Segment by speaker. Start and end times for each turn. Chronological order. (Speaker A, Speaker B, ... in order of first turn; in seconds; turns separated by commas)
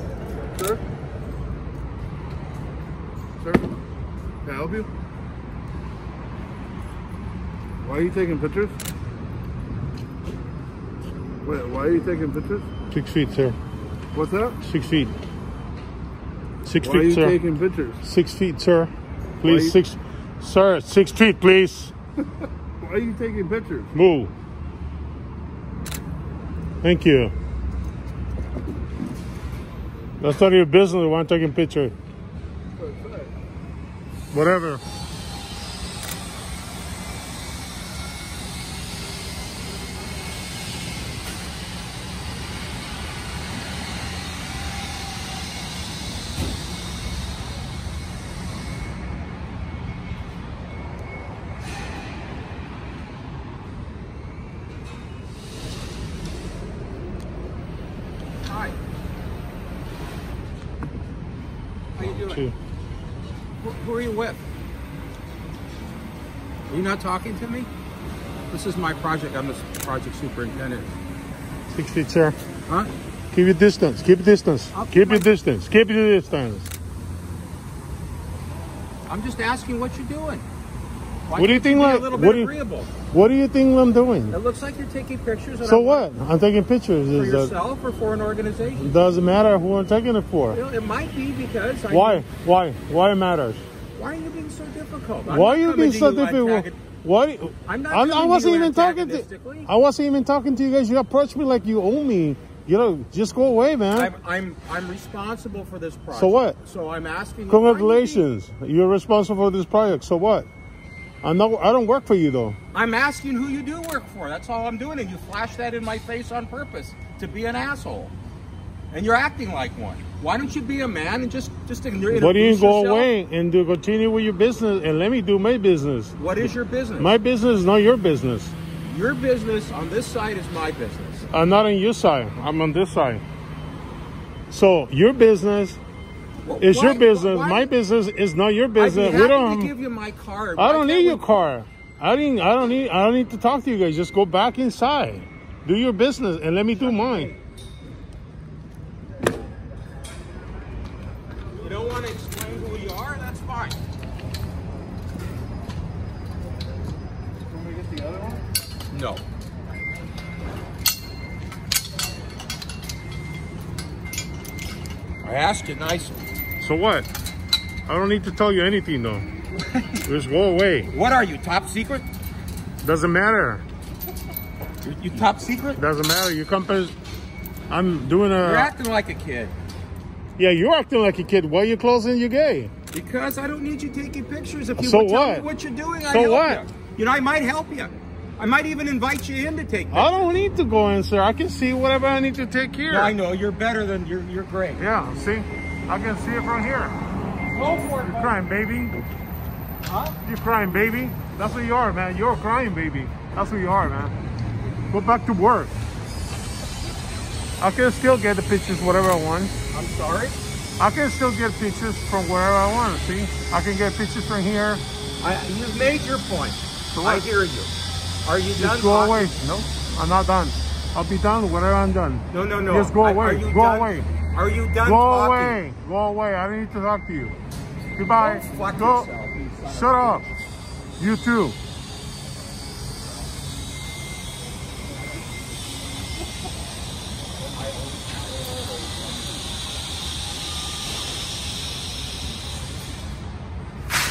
Speaker A: 0.4-0.8, Speaker A: 3.4-3.8, Speaker A: 4.4-4.9, Speaker A: 7.8-8.8, Speaker A: 11.4-12.7, Speaker B: 12.9-13.6, Speaker A: 14.1-14.6, Speaker B: 14.6-15.1, Speaker B: 16.6-17.4, Speaker A: 16.8-18.0, Speaker B: 18.0-21.9, Speaker A: 19.4-19.8, Speaker A: 22.8-23.9, Speaker B: 23.9-24.3, Speaker B: 26.8-27.3, Speaker B: 30.2-31.9, Speaker A: 32.8-33.3, Speaker B: 34.3-34.8, Speaker C: 58.4-58.8, Speaker C: 62.0-62.4, Speaker B: 62.0-62.5, Speaker C: 63.6-64.4, Speaker C: 66.7-67.7, Speaker C: 68.5-70.9, Speaker B: 71.7-72.3, Speaker C: 72.7-72.9, Speaker B: 73.3-76.7, Speaker C: 74.7-75.3, Speaker C: 79.1-80.4, Speaker C: 81.3-82.9, Speaker B: 81.3-82.5, Speaker B: 83.1-84.3, Speaker C: 84.3-86.1, Speaker B: 85.6-87.5, Speaker C: 87.1-88.9, Speaker B: 88.8-90.6, Speaker C: 90.5-92.2, Speaker B: 91.9-93.6, Speaker C: 93.9-96.8, Speaker B: 95.3-104.1, Speaker C: 97.7-99.7, Speaker C: 103.9-108.2, Speaker B: 106.1-106.6, Speaker B: 107.5-110.5, Speaker B: 111.2-112.6, Speaker C: 112.7-118.1, Speaker C: 118.9-123.1, Speaker B: 122.1-128.5, Speaker C: 126.2-127.1, Speaker C: 128.8-131.2, Speaker B: 131.3-133.2, Speaker B: 134.5-135.8, Speaker C: 136.4-137.7, Speaker B: 136.6-139.7, Speaker C: 138.7-141.2, Speaker B: 140.6-147.3, Speaker C: 146.7-147.4, Speaker C: 151.6-153.8, Speaker A: 157.5-158.4, Speaker C: 158.9-159.2, Speaker C: 165.2-166.2, Speaker B: 166.6-167.1, Speaker B: 167.8-169.3, Speaker C: 169.6-170.0, Speaker B: 170.1-170.9, Speaker C: 170.9-172.1, Speaker B: 172.8-173.6, Speaker C: 174.8-175.8, Speaker B: 175.7-176.9, Speaker B: 177.7-178.7, Speaker C: 178.4-179.5, Speaker B: 180.4-182.7, Speaker C: 182.9-190.1, Speaker B: 184.8-185.4, Speaker B: 186.1-186.6, Speaker B: 189.9-193.1, Speaker C: 192.9-194.9, Speaker B: 194.8-196.9, Speaker C: 197.5-198.3, Speaker B: 198.0-199.0, Speaker C: 199.9-200.2, Speaker B: 200.2-204.1, Speaker B: 204.9-205.7, Speaker B: 207.6-209.5, Speaker C: 209.7-210.4, Speaker B: 210.8-214.8, Speaker C: 215.2-217.7, Speaker B: 216.9-217.3, Speaker C: 218.2-219.3, Speaker B: 218.6-224.1, Speaker C: 222.3-225.6, Speaker B: 224.8-227.4, Speaker B: 228.0-229.1, Speaker C: 228.1-230.2, Speaker B: 229.7-230.2, Speaker B: 231.0-231.6, Speaker C: 237.4-239.3